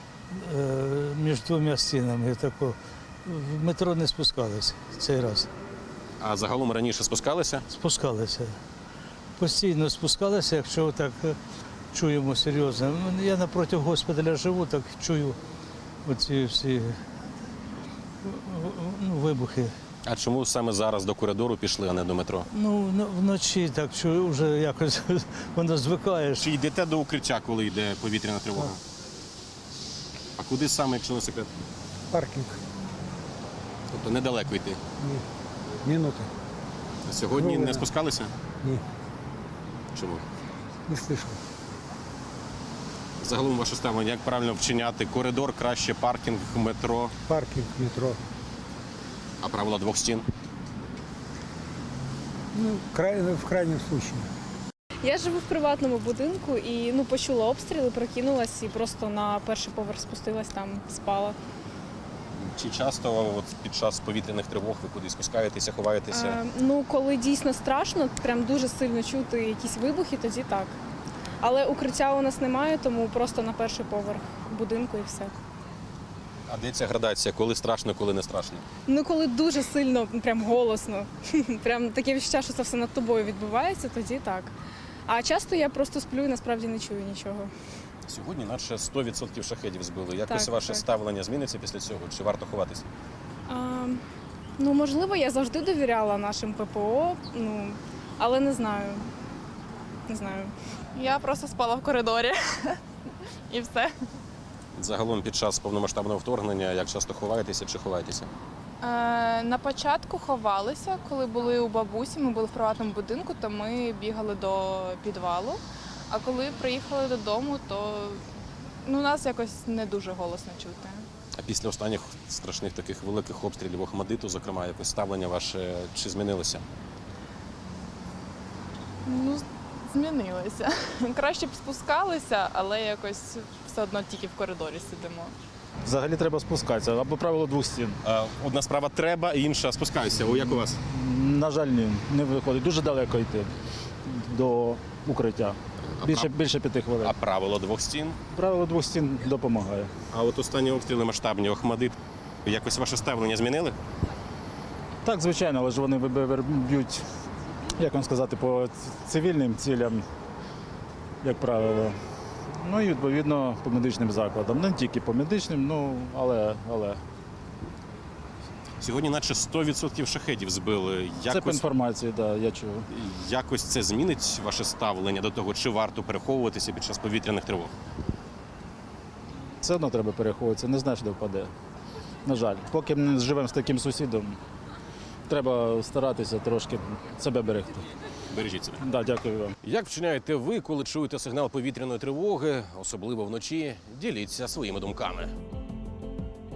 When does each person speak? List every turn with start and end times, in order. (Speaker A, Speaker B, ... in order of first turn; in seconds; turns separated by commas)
Speaker A: 0.3-5.5, Speaker B: 6.2-7.6, Speaker A: 7.7-8.6, Speaker A: 9.4-11.4, Speaker A: 11.9-15.4, Speaker A: 16.1-17.0, Speaker A: 18.2-19.7, Speaker B: 20.1-22.5, Speaker A: 22.5-26.5, Speaker B: 26.4-28.8, Speaker B: 30.4-31.5, Speaker C: 32.1-32.6, Speaker B: 33.9-34.8, Speaker C: 35.8-36.3, Speaker B: 37.1-38.3, Speaker C: 37.4-37.7, Speaker B: 39.9-40.2, Speaker C: 40.9-41.4, Speaker B: 43.2-47.1, Speaker C: 47.3-48.2, Speaker B: 49.4-50.2, Speaker C: 52.5-54.3, Speaker D: 55.1-61.4, Speaker B: 62.4-66.4, Speaker D: 66.1-70.8, Speaker D: 71.4-75.3, Speaker B: 76.5-78.6, Speaker D: 78.9-84.5, Speaker D: 85.1-87.5, Speaker B: 88.1-92.9, Speaker D: 90.3-90.8, Speaker D: 93.5-94.0, Speaker D: 94.6-99.0, Speaker D: 100.1-100.5, Speaker E: 100.9-102.8, Speaker E: 103.5-104.0, Speaker B: 104.8-108.3, Speaker E: 108.8-118.2, Speaker E: 118.8-121.1, Speaker B: 121.4-126.6, Speaker E: 129.1-135.3, Speaker F: 135.8-138.0, Speaker B: 138.0-140.8, Speaker F: 140.9-143.5, Speaker F: 144.1-147.2, Speaker B: 145.8-146.3, Speaker B: 147.0-148.2, Speaker F: 148.3-149.9, Speaker B: 150.1-153.8, Speaker F: 155.0-157.0, Speaker F: 157.8-160.1, Speaker F: 161.2-162.0, Speaker F: 162.6-167.0, Speaker B: 168.8-171.7, Speaker F: 171.3-172.8, Speaker B: 172.9-177.7, Speaker F: 179.6-181.5, Speaker F: 182.2-184.4, Speaker F: 185.3-187.8, Speaker B: 188.3-188.8, Speaker F: 188.8-189.6, Speaker B: 189.6-195.3